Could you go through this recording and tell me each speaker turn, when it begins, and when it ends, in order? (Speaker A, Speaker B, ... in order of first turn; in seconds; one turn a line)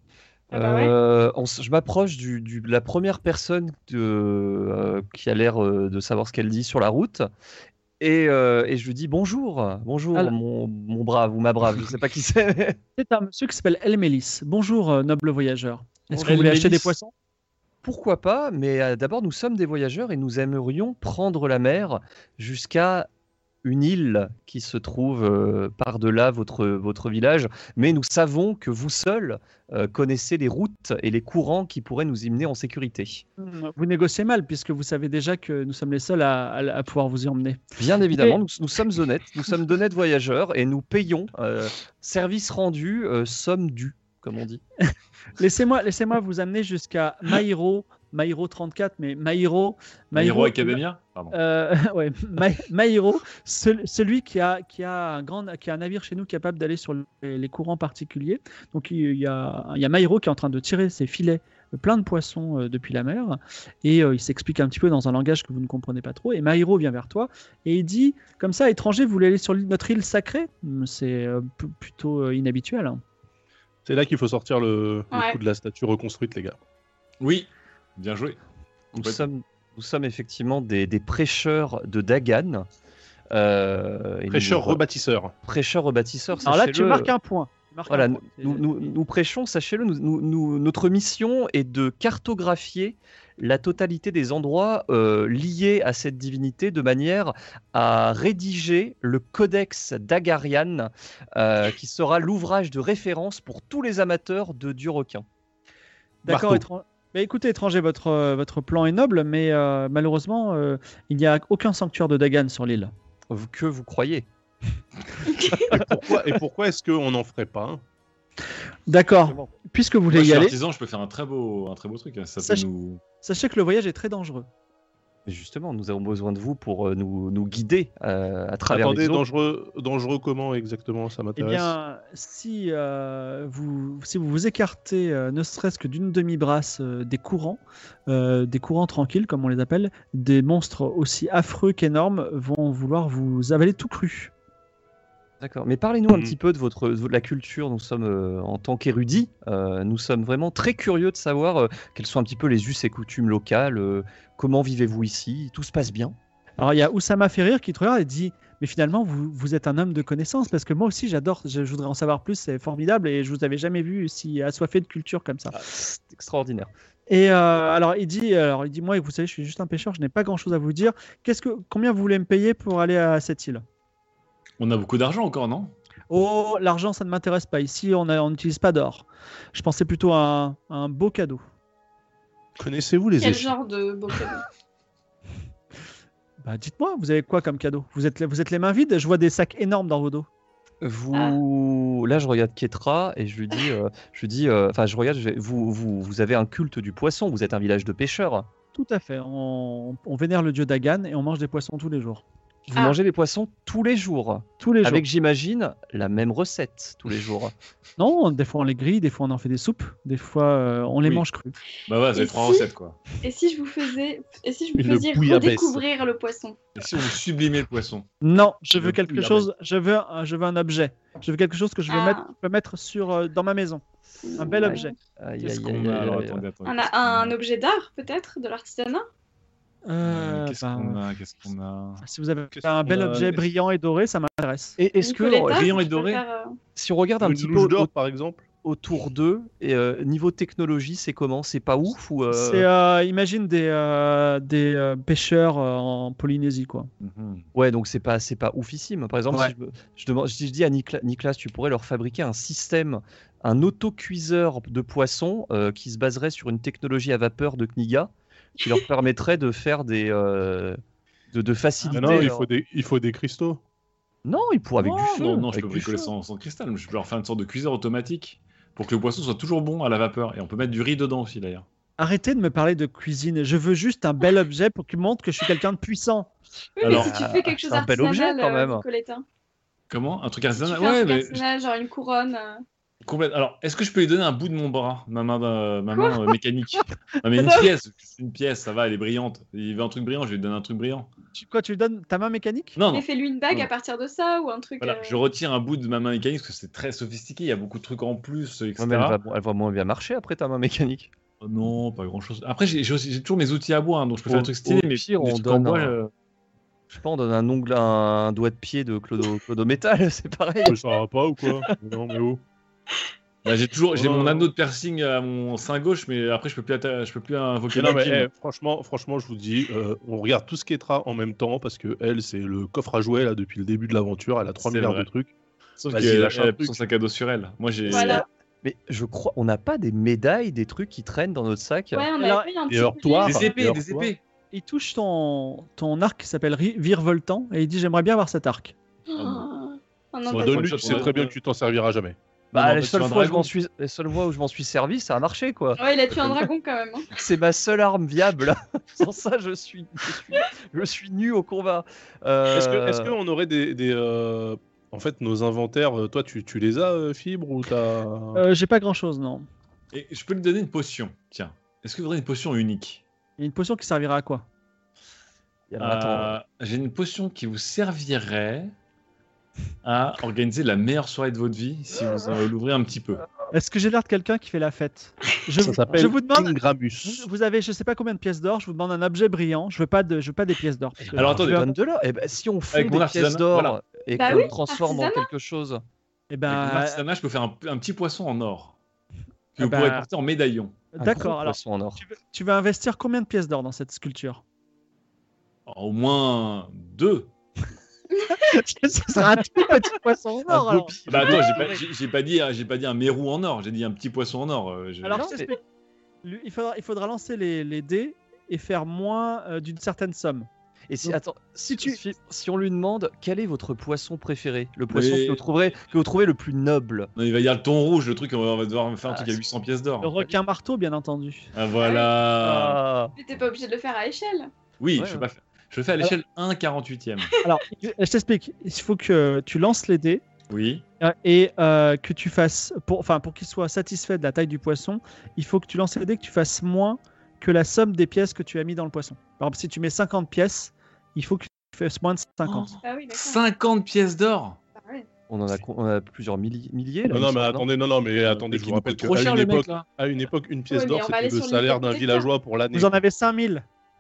Speaker A: 0.5-0.9
Speaker B: 0.5-7.3
Speaker B: 8.0-12.8
Speaker C: 13.0-17.1
Speaker B: 16.1-16.5
Speaker D: 16.2-16.9
Speaker B: 17.8-23.1
Speaker B: 23.6-33.2
Speaker C: 33.4-37.6
Speaker B: 37.8-44.6
Speaker C: 38.1-38.4
Speaker C: 45.4-73.0
Speaker D: 50.1-51.4
Speaker E: 73.8-76.6
Speaker A: 75.1-75.4
Speaker D: 77.2-78.4
Speaker D: 78.9-79.3
Speaker B: 78.9-82.7
Speaker B: 83.3-84.8
Speaker E: 84.3-85.3
Speaker B: 85.4-87.1
Speaker C: 86.5-89.0
Speaker B: 87.9-105.2
Speaker C: 106.2-112.9
Speaker E: 106.3-106.6
Speaker B: 113.3-114.3
Speaker E: 115.7-117.8
Speaker C: 118.9-120.5
Speaker D: 120.1-123.0
Speaker C: 122.4-122.7
Speaker C: 123.2-124.5
Speaker B: 125.3-129.2
Speaker E: 128.7-131.7
Speaker C: 131.4-144.3
Speaker B: 145.4-156.2
Speaker E: 146.1-146.3
Speaker C: 156.6-165.6
Speaker B: 165.5-166.7
Speaker C: 167.1-173.6
Speaker D: 174.6-175.7
Speaker C: 176.1-181.4
Speaker E: 182.6-183.5
Speaker A: 183.2-184.5
Speaker C: 186.4-190.3
Speaker B: 190.8-198.5
Speaker A: 191.1-191.4
Speaker C: 198.7-202.2
Speaker B: 202.7-207.5
Speaker C: 204.6-205.1
Speaker C: 208.0-211.6
Speaker D: 211.9-213.0
Speaker A: 212.2-212.7
Speaker A: 213.2-216.6
Speaker E: 214.8-215.9
Speaker D: 216.8-218.1
Speaker C: 218.2-223.8
Speaker D: 218.8-219.4
Speaker A: 221.9-222.3
Speaker A: 224.2-224.9
Speaker C: 224.4-225.0
Speaker B: 224.6-226.4
Speaker D: 225.4-227.3
Speaker A: 226.7-229.1
Speaker C: 229.9-231.0
Speaker D: 230.0-232.0
Speaker C: 232.0-234.8
Speaker E: 232.5-233.4
Speaker B: 234.8-235.8
Speaker A: 235.0-236.6
Speaker D: 235.5-236.2
Speaker B: 236.8-237.9
Speaker E: 237.2-238.4
Speaker B: 238.6-242.7
Speaker C: 242.3-246.9
Speaker D: 247.0-247.5
Speaker B: 247.6-260.8
Speaker B: 261.3-262.5
Speaker D: 261.8-262.3
Speaker E: 261.9-263.6
Speaker B: 264.2-266.1
Speaker D: 264.8-271.6
Speaker C: 272.0-276.3
Speaker A: 276.8-279.2
Speaker D: 276.8-277.1
Speaker B: 276.9-278.8
Speaker D: 279.9-281.4
Speaker A: 280.6-282.6
Speaker D: 283.1-291.1
Speaker A: 285.9-286.4
Speaker A: 287.4-287.7
Speaker C: 291.4-292.8
Speaker D: 292.8-293.7
Speaker A: 292.9-295.2
Speaker D: 294.8-299.2
Speaker B: 298.8-301.1
Speaker D: 301.4-306.1
Speaker B: 304.3-306.0
Speaker B: 306.9-310.8
Speaker E: 310.6-312.4
Speaker D: 313.4-318.3
Speaker E: 313.9-314.5
Speaker E: 317.7-325.3
Speaker D: 324.6-325.1
Speaker D: 325.8-328.2
Speaker E: 325.9-326.8
Speaker A: 327.9-328.3
Speaker B: 328.6-332.1
Speaker A: 331.9-333.6
Speaker C: 332.2-332.5
Speaker E: 332.7-334.1
Speaker D: 333.2-334.2
Speaker C: 334.5-338.8
Speaker A: 339.1-341.1
Speaker D: 339.1-339.5
Speaker E: 340.3-342.2
Speaker D: 340.3-341.3
Speaker B: 342.5-346.5
Speaker D: 342.6-343.5
Speaker A: 345.8-347.1
Speaker B: 347.1-353.1
Speaker E: 352.5-358.4
Speaker C: 358.4-359.5
Speaker D: 359.9-363.0
Speaker C: 363.4-364.5
Speaker B: 365.7-366.3
Speaker D: 365.8-368.7
Speaker D: 369.8-373.2
Speaker C: 373.5-381.7
Speaker E: 375.6-377.3
Speaker B: 375.9-376.1
Speaker D: 381.1-381.7
Speaker B: 381.3-385.8
Speaker D: 382.7-383.8
Speaker A: 384.1-385.3
Speaker C: 386.3-387.0
Speaker D: 386.5-388.8
Speaker D: 389.6-390.8
Speaker C: 389.6-390.1
Speaker C: 390.9-394.4
Speaker B: 391.0-392.0
Speaker D: 395.7-397.3
Speaker C: 398.3-400.9
Speaker B: 400.5-401.8
Speaker D: 401.1-405.3
Speaker C: 405.0-405.6
Speaker B: 405.2-405.5
Speaker C: 406.2-410.5
Speaker B: 410.9-417.1
Speaker C: 411.0-412.0
Speaker D: 414.9-415.4
Speaker D: 417.2-420.1
Speaker B: 419.1-419.4
Speaker C: 420.0-421.5
Speaker D: 421.5-422.8
Speaker A: 421.8-422.1
Speaker B: 422.4-423.1
Speaker A: 423.2-424.5
Speaker D: 424.8-427.3
Speaker B: 425.0-425.3
Speaker C: 427.4-430.2
Speaker D: 430.5-430.8
Speaker C: 431.0-442.7
Speaker D: 442.4-444.6
Speaker A: 442.8-443.4
Speaker A: 444.8-445.1
Speaker B: 445.3-447.7
Speaker E: 447.1-453.0
Speaker D: 448.3-449.9
Speaker A: 450.7-452.3
Speaker C: 452.7-453.6